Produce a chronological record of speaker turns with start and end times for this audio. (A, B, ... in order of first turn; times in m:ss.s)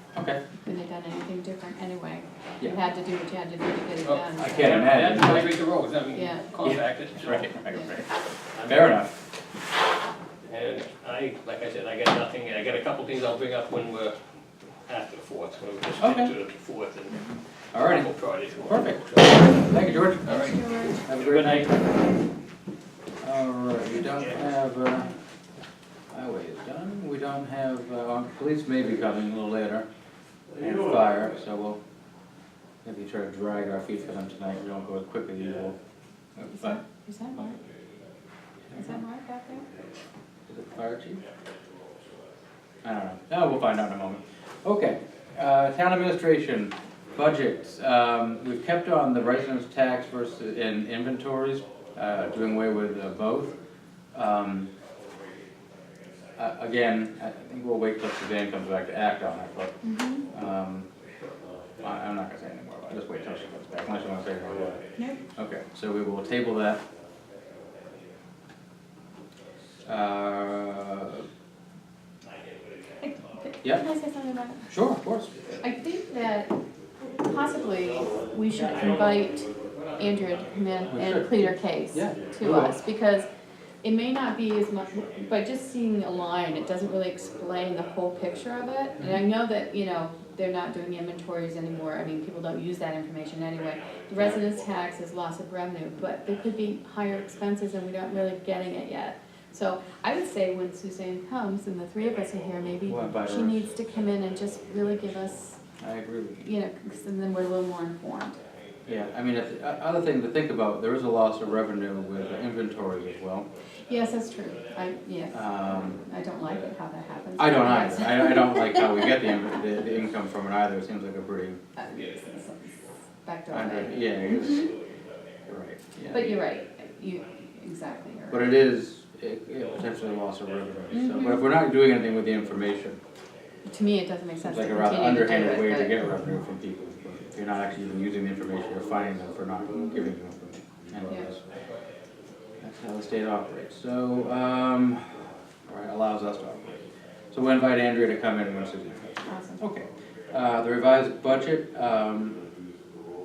0:00.2-0:00.4 A
0:00.6-0:04.8 B
0:04.0-0:07.7 C
0:04.4-0:05.6 A
0:06.1-0:06.5 B
0:06.6-0:08.1 A
0:08.6-0:09.0 C
0:08.7-0:09.3 A
0:10.4-0:14.2 C
0:14.9-0:19.6 C
0:16.0-0:16.4 A
0:17.1-0:17.4 B
0:17.7-0:21.8 A
0:19.7-0:21.0 B
0:21.1-0:21.8 C
0:23.2-0:25.1 A
0:24.1-0:24.4 C
0:26.1-0:29.9 A
0:30.6-0:31.8 A
0:32.8-0:35.8 A
0:36.4-0:36.8 A
0:36.5-0:37.6 B
0:38.7-0:39.0 A
0:38.7-0:39.7 B
0:40.5-0:41.2 A
0:42.8-0:53.6 A
0:54.1-0:54.7 A
0:56.4-0:59.8 A
0:59.8-1:00.3 B
1:00.3-1:00.9 A
1:01.8-1:04.8 A
1:03.5-1:04.8 C
1:05.4-1:06.8 A
1:07.4-1:08.0 C
1:09.8-1:11.2 A
1:12.3-1:13.5 C
1:13.0-1:14.7 B
1:14.7-1:15.4 A
1:15.6-1:16.5 B
1:17.2-1:23.3 B
1:17.3-1:21.1 C
1:20.9-1:22.8 A
1:23.8-1:45.6 B
1:25.0-1:25.3 C
1:26.0-1:26.9 C
1:29.0-1:29.2 A
1:33.7-1:34.5 C
1:34.1-1:34.4 A
1:42.1-1:42.6 C
1:42.8-1:43.7 A
1:44.1-1:44.6 C
1:45.8-1:46.4 A
1:46.4-1:48.4 B
1:48.4-1:50.0 C
1:48.9-1:53.5 A
1:51.7-1:54.5 C
1:53.8-1:59.5 B
1:55.3-1:56.0 A
1:56.4-1:56.6 C
1:57.4-2:01.6 A
2:01.8-2:04.7 B
2:01.9-2:02.9 C
2:03.5-2:04.7 A
2:04.0-2:04.7 C
2:05.5-2:06.4 A
2:06.1-2:08.6 B
2:08.3-2:13.0 A
2:09.5-2:11.3 C
2:10.9-2:11.5 B
2:11.9-2:12.5 C
2:13.6-2:16.0 B
2:14.4-2:21.4 A
2:19.7-2:20.1 B
2:21.5-2:21.8 C
2:22.6-2:26.8 A
2:27.3-2:32.4 A
2:29.2-2:29.6 B